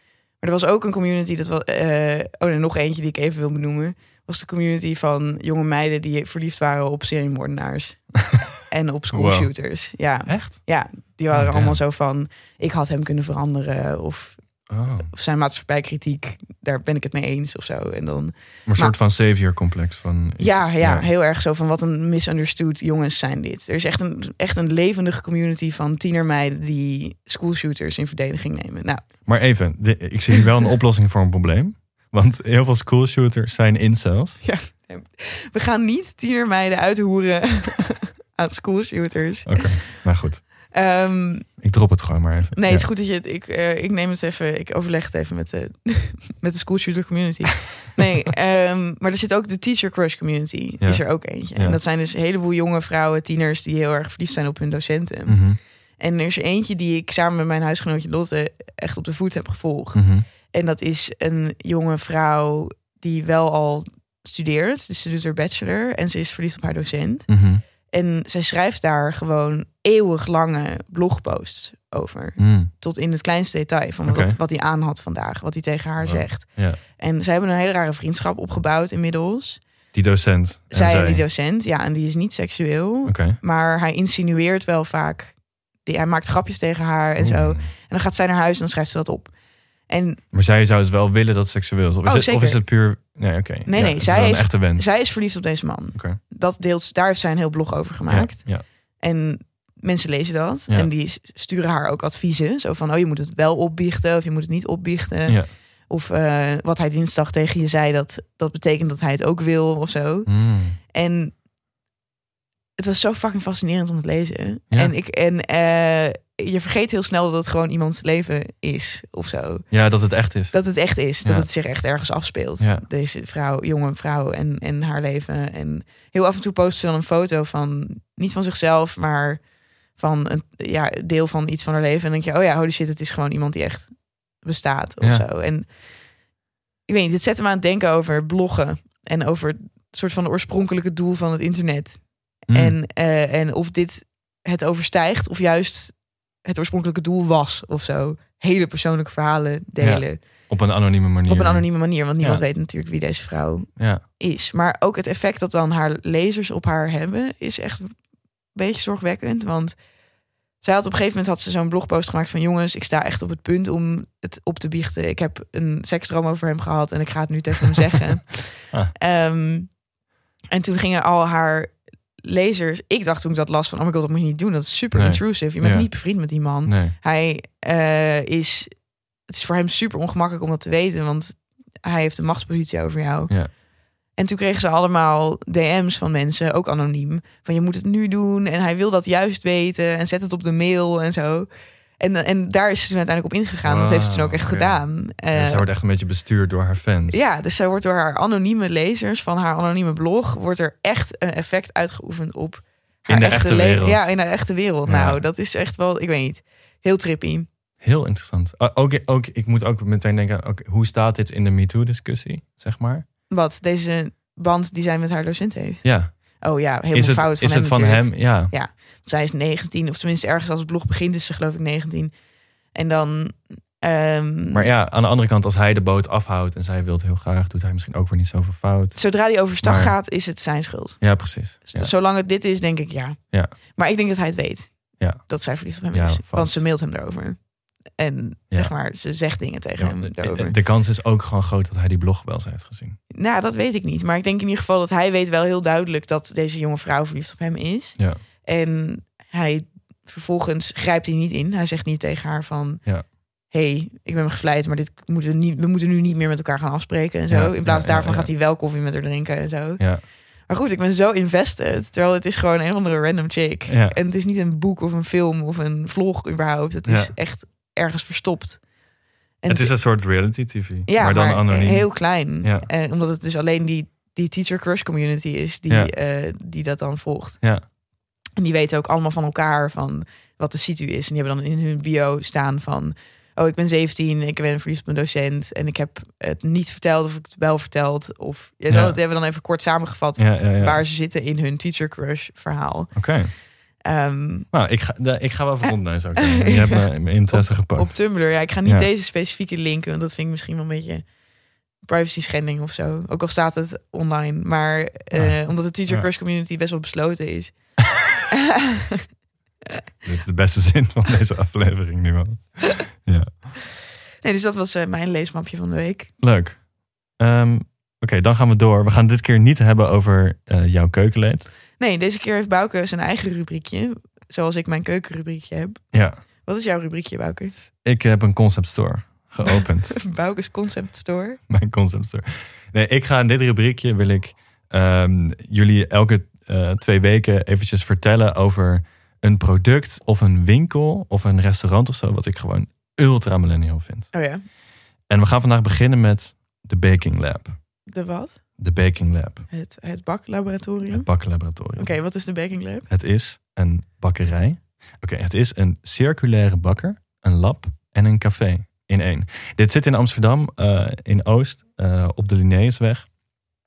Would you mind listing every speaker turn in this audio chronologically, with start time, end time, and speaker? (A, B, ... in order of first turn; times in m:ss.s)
0:00.4-0:14.5 A
0:09.1-0:09.5 B
0:10.2-0:10.6 B
0:11.3-0:11.8 B
0:14.7-0:15.1 B
0:15.0-0:19.0 A
0:18.6-0:21.0 B
0:20.4-0:29.0 A
0:29.2-0:34.4 B
0:34.4-0:40.0 A
0:39.4-0:40.5 B
0:40.7-0:41.5 A
0:41.6-0:42.8 B
0:42.6-1:07.3 A
0:50.8-0:51.8 B
0:55.3-0:55.6 B
0:59.9-1:00.2 B
1:07.3-1:07.6 B
1:07.8-1:19.6 A
1:12.4-1:12.7 B
1:14.0-1:14.4 B
1:16.0-1:16.8 B
1:19.9-1:21.2 B
1:20.7-1:29.3 A
1:23.0-1:23.4 B
1:27.2-1:27.7 B
1:29.9-1:30.2 A
1:30.3-1:34.8 B
1:32.0-1:32.6 A
1:33.7-1:51.3 A
1:38.1-1:38.6 B
1:50.2-1:50.8 B
1:52.8-1:59.7 A
1:59.7-2:00.6 B
2:00.5-2:15.8 A
2:01.2-2:01.5 B
2:02.6-2:02.8 B
2:16.9-2:30.5 A
2:22.5-2:22.8 B
2:29.8-2:32.4 B
2:31.3-2:38.0 A
2:33.8-2:34.0 B
2:38.5-2:39.8 A
2:40.6-2:49.8 A
2:50.5-3:03.6 A
2:54.9-2:56.0 B
2:56.6-2:57.0 B
3:04.1-3:11.5 A
3:12.0-3:15.7 A
3:13.6-3:17.2 B
3:17.1-3:27.5 A
3:23.1-3:24.1 B
3:24.8-3:25.2 B
3:27.8-3:33.0 B
3:33.3-3:42.1 A
3:35.8-3:36.4 B
3:36.9-3:38.5 B
3:42.7-3:44.7 A
3:44.5-3:49.1 B
3:49.0-3:57.4 A
3:49.6-3:50.0 B
3:51.0-3:51.9 B
3:55.0-3:55.2 B
3:55.9-3:56.6 B
3:57.9-4:00.5 A
3:59.8-4:03.0 B
4:03.1-4:12.8 A
4:13.5-4:19.9 A
4:17.3-4:18.3 B
4:20.4-4:28.6 A
4:23.7-4:24.0 B
4:26.8-4:27.1 B
4:29.4-4:29.8 A
4:29.5-4:32.7 B
4:30.9-4:37.4 A
4:38.4-4:53.0 A
4:48.7-4:49.0 B
4:50.2-4:50.8 B
4:52.9-4:53.3 B
4:53.8-4:54.5 A
4:54.5-4:58.9 B
4:56.2-5:01.1 A
5:01.8-5:07.7 A
5:05.1-5:06.1 B
5:08.3-5:09.0 A
5:10.0-5:13.3 B
5:14.2-5:16.1 A
5:16.2-5:16.6 B
5:17.1-5:21.5 B
5:21.8-5:25.8 A
5:26.4-5:27.5 A
5:27.8-5:30.0 B
5:29.4-5:31.4 A
5:31.5-5:44.1 B
5:44.1-5:44.4 A
5:45.1-5:47.5 B
5:47.9-5:48.4 A
5:48.6-5:49.4 B
5:49.5-5:51.1 A
5:50.9-5:52.0 B
5:51.8-5:52.8 A
5:52.9-6:03.1 B